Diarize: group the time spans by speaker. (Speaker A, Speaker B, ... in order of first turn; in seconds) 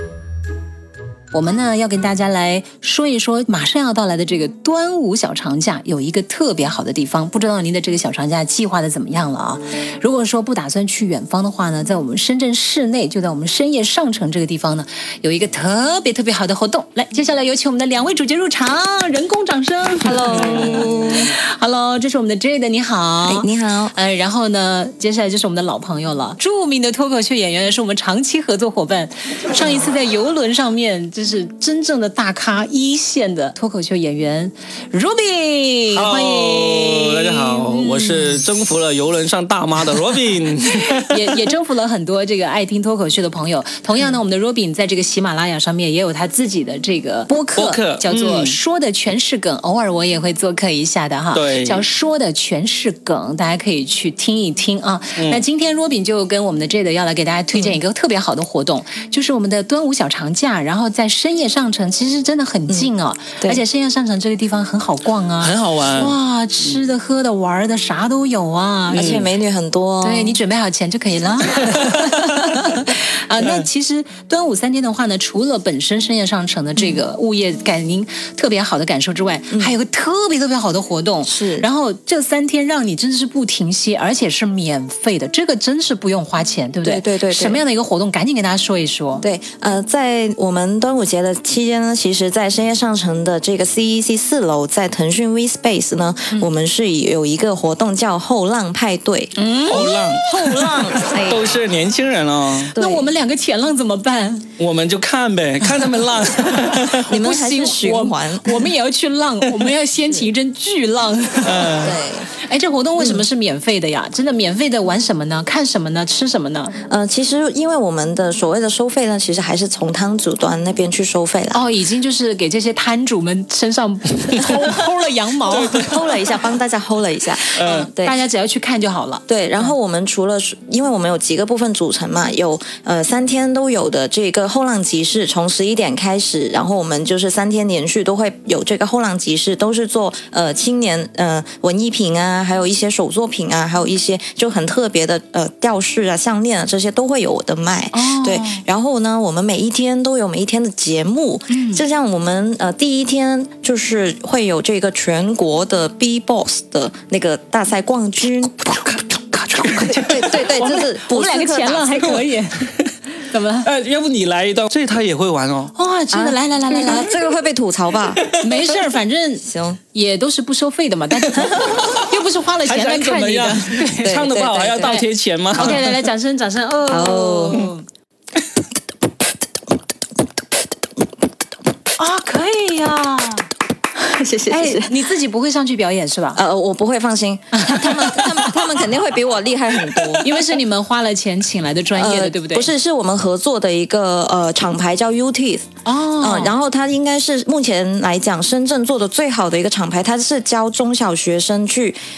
Speaker A: 1.3-38.4, 41.0-69.2, 70.0-89.2, 99.3-99.9, 102.7-104.4, 106.7-116.8, 121.5-126.0, 127.6-129.7, 147.9-148.6, 151.5-151.8, 160.6-163.7, 165.7-167.1, 168.4-174.3, 174.8-177.8, 182.0-183.5, 184.5-186.4, 187.6-188.6, 190.2-192.7, 195.8-196.5
Speaker B: 20.0-21.3, 23.2-23.9, 57.5-57.8, 62.7-63.6, 69.0-70.4, 76.8-77.0, 81.2-81.7, 86.8-87.6, 89.2-101.4, 102.7-103.1, 107.1-108.6, 111.8-112.3, 113.0-113.2, 116.9-121.6, 125.5-128.2, 129.3-158.6, 159.8-162.1, 166.1-168.2, 169.4-169.8, 174.0-175.0, 176.9-177.7, 184.0-185.0, 186.3-190.3, 191.9-202.0
Speaker C: 35.9-41.4, 47.5-48.6, 51.3-51.9, 55.1-55.4, 65.4-66.2, 68.9-69.2, 99.7-102.7, 104.6-107.1, 111.4-112.0, 125.5-126.0, 127.5-127.9, 158.8-160.6, 163.6-165.7, 171.4-172.0, 172.6-175.9